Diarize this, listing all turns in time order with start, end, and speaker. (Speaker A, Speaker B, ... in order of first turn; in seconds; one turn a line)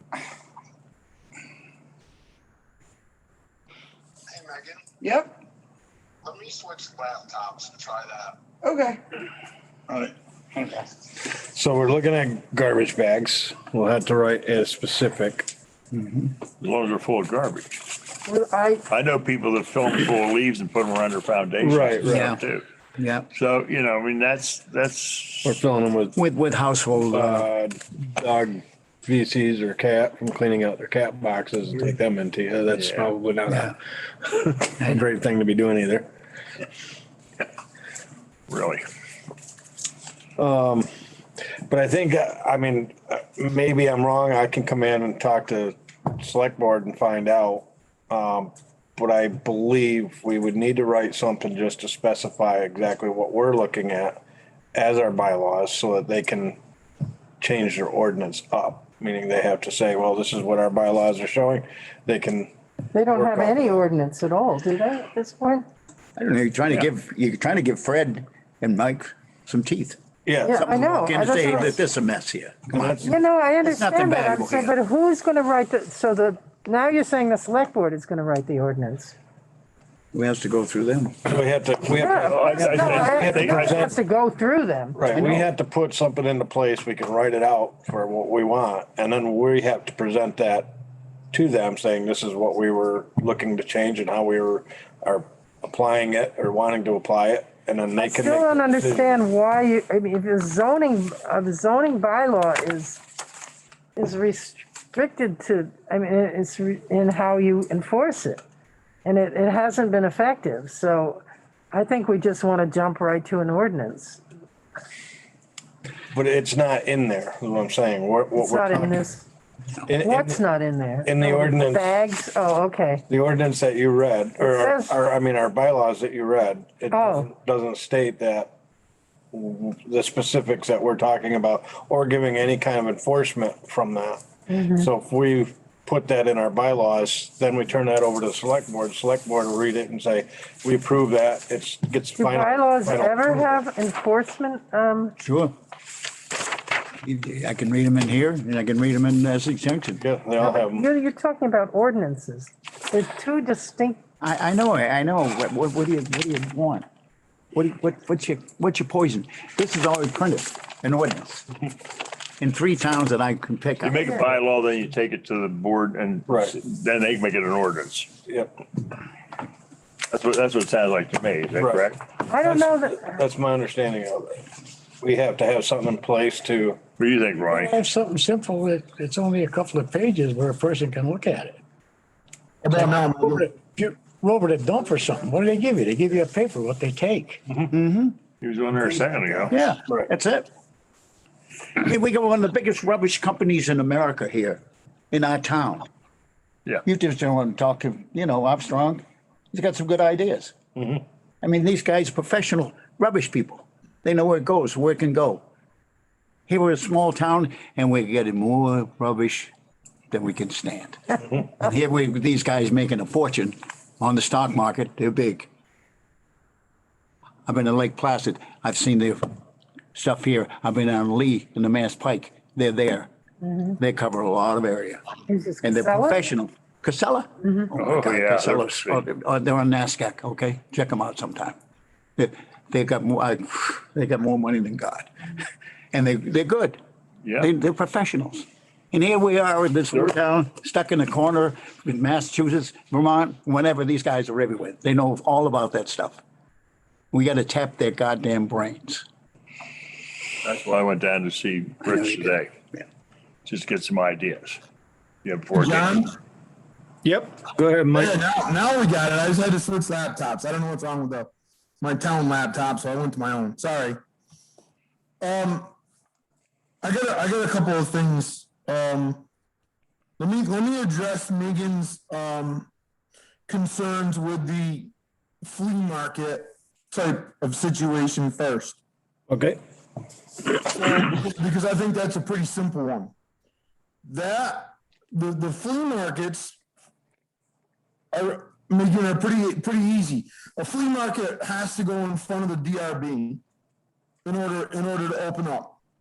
Speaker A: 4.3-4.6
Speaker A: 6.3-8.3
Speaker B: 8.6-8.9
Speaker C: 11.3-15.5
Speaker B: 15.9-16.4
Speaker D: 16.6-17.8
Speaker E: 18.2-18.9
Speaker D: 18.9-22.6
Speaker C: 21.6-22.3
Speaker B: 22.0-22.4
Speaker B: 23.0-23.3
Speaker D: 23.3-25.6
Speaker C: 25.4-26.2
Speaker B: 26.2-27.5
Speaker C: 27.1-36.1
Speaker D: 32.7-33.2
Speaker B: 33.5-33.7
Speaker D: 38.5-38.8
Speaker C: 40.4-40.9
Speaker C: 41.7-54.2
Speaker C: 54.7-56.6
Speaker C: 57.4-62.5
Speaker E: 62.9-65.7
Speaker C: 63.1-63.7
Speaker B: 66.2-74.7
Speaker C: 70.3-70.6
Speaker E: 70.5-71.8
Speaker C: 72.7-73.1
Speaker E: 73.0-79.2
Speaker B: 80.1-81.2
Speaker C: 81.3-83.9
Speaker E: 81.9-85.4
Speaker D: 82.1-83.9
Speaker C: 85.0-90.8
Speaker C: 91.3-99.1
Speaker E: 98.0-103.0
Speaker E: 104.0-108.4
Speaker E: 109.0-114.2
Speaker C: 116.1-119.0
Speaker E: 118.4-119.3
Speaker C: 119.9-120.4
Speaker E: 120.0-123.0
Speaker C: 121.0-121.9
Speaker C: 123.1-128.5
Speaker E: 124.4-125.0
Speaker E: 126.9-127.3
Speaker C: 129.3-143.6
Speaker E: 134.5-134.9
Speaker E: 142.2-145.2
Speaker B: 145.2-145.6
Speaker B: 147.0-150.0
Speaker C: 150.0-150.8
Speaker E: 150.4-154.0
Speaker B: 154.2-156.8
Speaker B: 157.5-161.5
Speaker B: 162.4-164.1
Speaker D: 163.8-168.1
Speaker C: 166.3-166.5
Speaker C: 168.3-168.6
Speaker D: 170.1-172.0
Speaker C: 171.6-171.9
Speaker E: 172.3-173.2
Speaker C: 172.4-174.4
Speaker C: 175.0-176.8
Speaker D: 177.0-177.8
Speaker F: 177.5-181.6
Speaker A: 182.6-183.5
Speaker F: 182.7-187.6
Speaker B: 187.7-188.2
Speaker D: 188.4-189.6
Speaker B: 189.5-190.5
Speaker B: 191.8-195.9
Speaker B: 196.8-200.6
Speaker C: 200.8-201.0
Speaker B: 201.4-205.4
Speaker B: 206.5-209.5
Speaker B: 210.1-215.5
Speaker B: 217.5-219.3
Speaker B: 219.9-223.1
Speaker E: 223.4-223.8
Speaker B: 223.8-225.0
Speaker E: 225.3-226.3
Speaker B: 225.6-231.6
Speaker E: 227.4-227.7
Speaker D: 227.8-229.0
Speaker B: 232.2-235.1
Speaker B: 235.9-236.8
Speaker D: 237.2-237.5
Speaker B: 237.4-246.2
Speaker B: 247.1-249.1
Speaker D: 250.4-252.5
Speaker D: 253.4-254.6
Speaker D: 255.2-256.0
Speaker A: 255.5-256.1
Speaker C: 257.0-258.2
Speaker A: 257.9-264.0
Speaker A: 265.2-265.7
Speaker A: 266.8-269.2
Speaker A: 270.2-272.7
Speaker A: 273.5-278.8
Speaker C: 279.3-279.6
Speaker A: 280.8-283.1
Speaker A: 284.1-286.6
Speaker A: 288.1-293.4
Speaker A: 294.2-295.8